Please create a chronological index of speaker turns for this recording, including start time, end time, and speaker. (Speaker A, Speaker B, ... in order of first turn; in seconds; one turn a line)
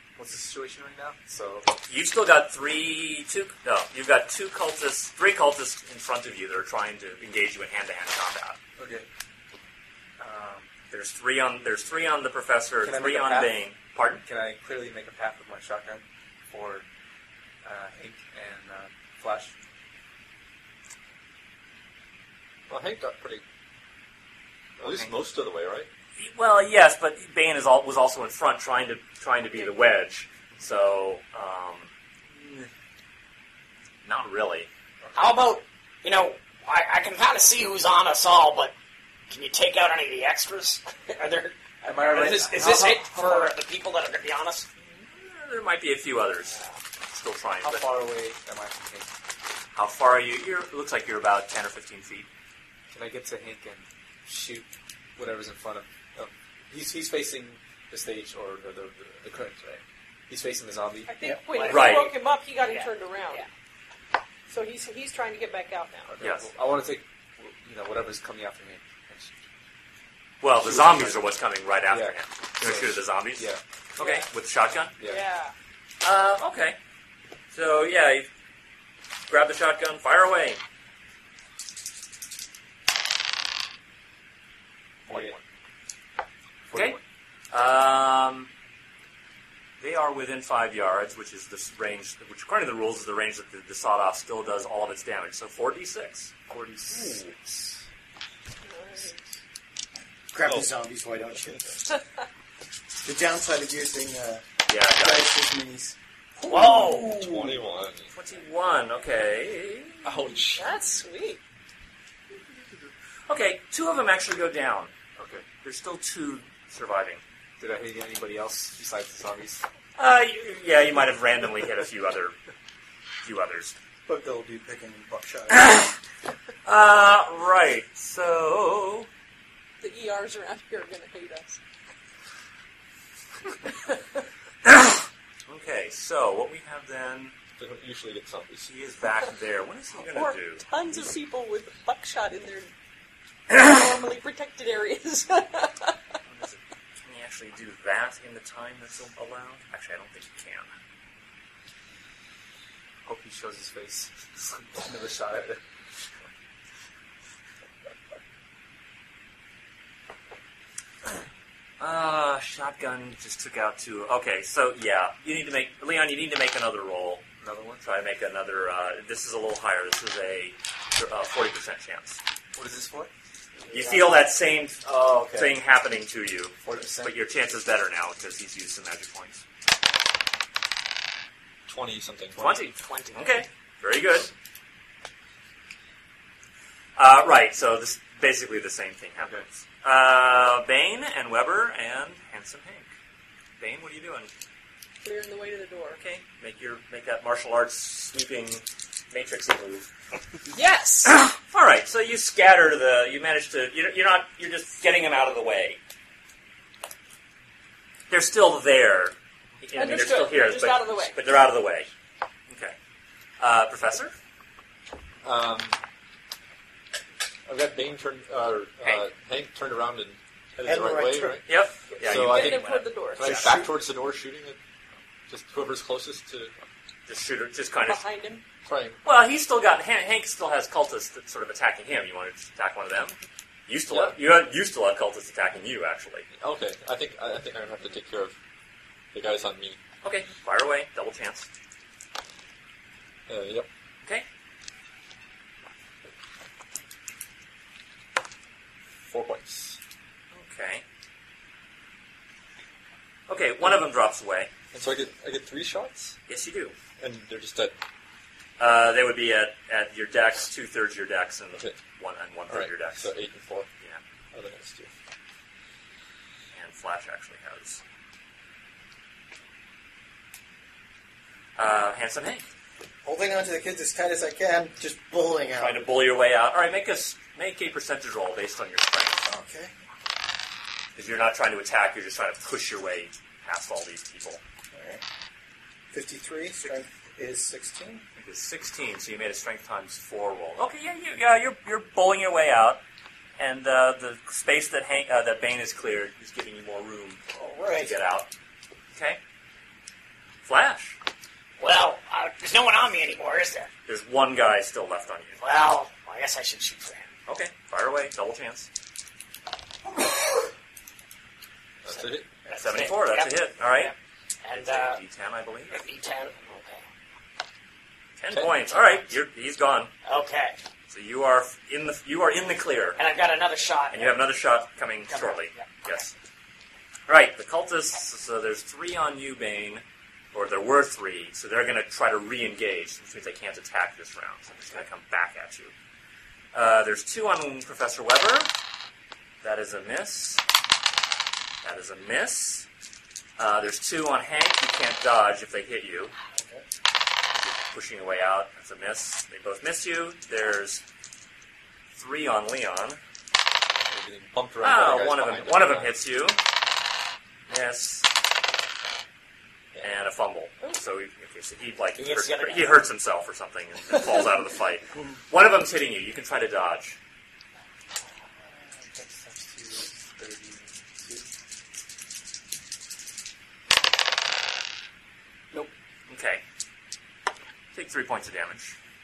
Speaker A: 0.1-1.7
Speaker B: 1.9-8.6
Speaker A: 8.8-9.1
Speaker A: 10.2-10.7
Speaker B: 10.9-14.2
Speaker A: 12.8-13.6
Speaker A: 14.2-16.8
Speaker A: 17.6-19.5
Speaker C: 22.7-23.4
Speaker C: 24.8-25.9
Speaker A: 24.8-25.1
Speaker B: 26.2-32.7
Speaker B: 34.0-34.7
Speaker A: 35.0-35.3
Speaker D: 35.1-38.7
Speaker D: 39.3-44.6
Speaker A: 41.9-43.5
Speaker B: 44.8-47.9
Speaker A: 47.6-49.1
Speaker B: 49.7-52.3
Speaker A: 52.9-61.1
Speaker E: 61.0-63.5
Speaker D: 61.5-63.5
Speaker B: 61.6-62.1
Speaker E: 64.5-66.1
Speaker A: 66.1-69.4
Speaker B: 66.2-66.5
Speaker B: 70.4-74.9
Speaker A: 70.6-71.3
Speaker A: 71.9-73.6
Speaker E: 74.0-74.2
Speaker A: 75.0-75.2
Speaker E: 75.0-75.5
Speaker B: 76.0-76.8
Speaker B: 77.5-78.3
Speaker B: 79.3-80.6
Speaker A: 85.1-85.4
Speaker B: 85.1-85.4
Speaker A: 86.7-87.0
Speaker B: 86.7-87.0
Speaker B: 87.5-88.5
Speaker B: 89.8-96.3
Speaker A: 96.5-97.7
Speaker B: 96.9-97.3
Speaker E: 98.6-99.2
Speaker F: 100.3-101.7
Speaker F: 103.0-107.6
Speaker B: 104.7-105.4
Speaker D: 106.5-107.2
Speaker C: 107.1-108.1
Speaker B: 108.1-110.4
Speaker C: 110.0-110.8
Speaker E: 110.5-111.4
Speaker B: 113.3-114.9
Speaker A: 115.2-115.5
Speaker B: 115.6-117.2
Speaker A: 117.6-119.6
Speaker B: 120.0-122.3
Speaker B: 123.2-123.7
Speaker F: 124.1-125.7
Speaker B: 125.5-126.0
Speaker B: 126.6-129.1
Speaker E: 129.8-131.6
Speaker B: 134.7-137.3
Speaker C: 137.6-138.7
Speaker B: 138.6-140.7
Speaker E: 140.0-142.7
Speaker E: 143.5-146.0
Speaker B: 146.2-150.7
Speaker A: 153.0-155.6
Speaker B: 161.8-167.2
Speaker A: 167.4-167.9
Speaker B: 167.8-172.2
Speaker A: 172.5-173.1
Speaker B: 173.7-179.4
Speaker A: 174.8-175.6
Speaker A: 176.6-177.2
Speaker C: 181.7-182.6
Speaker B: 182.3-184.3
Speaker D: 182.7-183.3
Speaker B: 187.0-192.9
Speaker A: 189.2-189.4
Speaker B: 193.6-194.3
Speaker E: 195.0-196.0
Speaker B: 195.9-199.9
Speaker E: 200.5-201.1
Speaker B: 201.1-205.8
Speaker B: 208.1-211.9
Speaker E: 209.7-211.3
Speaker B: 212.5-212.8
Speaker B: 213.4-214.1
Speaker C: 215.2-215.8
Speaker C: 217.4-224.6
Speaker B: 218.8-219.1
Speaker F: 220.6-221.4
Speaker B: 221.4-223.5
Speaker E: 222.1-223.4
Speaker F: 223.2-223.7
Speaker C: 225.3-226.5
Speaker B: 227.1-228.0
Speaker E: 227.8-228.4
Speaker C: 228.7-229.0
Speaker B: 229.0-233.2
Speaker B: 233.7-236.3
Speaker C: 233.9-234.2
Speaker C: 236.4-238.3
Speaker C: 239.1-239.8
Speaker B: 240.0-241.5
Speaker C: 243.3-243.7
Speaker C: 249.1-249.8
Speaker B: 250.3-250.8
Speaker B: 253.3-254.5
Speaker C: 254.7-256.2
Speaker B: 256.3-256.7
Speaker C: 257.0-257.7
Speaker B: 258.6-263.1
Speaker C: 262.5-263.7
Speaker C: 264.3-264.9
Speaker B: 266.5-267.8
Speaker B: 271.6-272.4
Speaker F: 273.0-275.8
Speaker B: 275.6-279.2
Speaker F: 279.2-279.7
Speaker B: 280.9-284.4
Speaker F: 284.7-285.0
Speaker F: 285.9-288.0
Speaker B: 288.2-292.8
Speaker B: 293.4-297.2
Speaker F: 297.3-298.0
Speaker B: 297.7-298.3
Speaker B: 300.4-301.0
Speaker D: 301.6-303.7
Speaker B: 303.9-305.4
Speaker D: 305.4-307.1
Speaker B: 307.3-308.7
Speaker C: 311.8-312.3
Speaker D: 311.9-315.0
Speaker B: 312.5-313.9
Speaker B: 314.5-315.8
Speaker D: 315.7-316.8
Speaker B: 318.2-319.9
Speaker C: 318.3-319.0
Speaker D: 320.0-320.6
Speaker B: 320.9-323.0
Speaker D: 323.0-324.2
Speaker B: 323.9-326.1
Speaker D: 325.1-325.7
Speaker B: 327.1-335.7
Speaker B: 336.5-338.5
Speaker B: 339.4-340.4
Speaker B: 341.6-342.6
Speaker B: 343.4-346.1
Speaker F: 346.4-346.6
Speaker B: 347.3-350.8
Speaker B: 351.9-353.0
Speaker C: 353.8-355.9
Speaker B: 354.6-356.4
Speaker B: 357.5-358.1
Speaker B: 359.8-367.0
Speaker D: 361.9-362.8
Speaker A: 368.4-371.3
Speaker B: 376.1-376.4
Speaker B: 377.7-378.8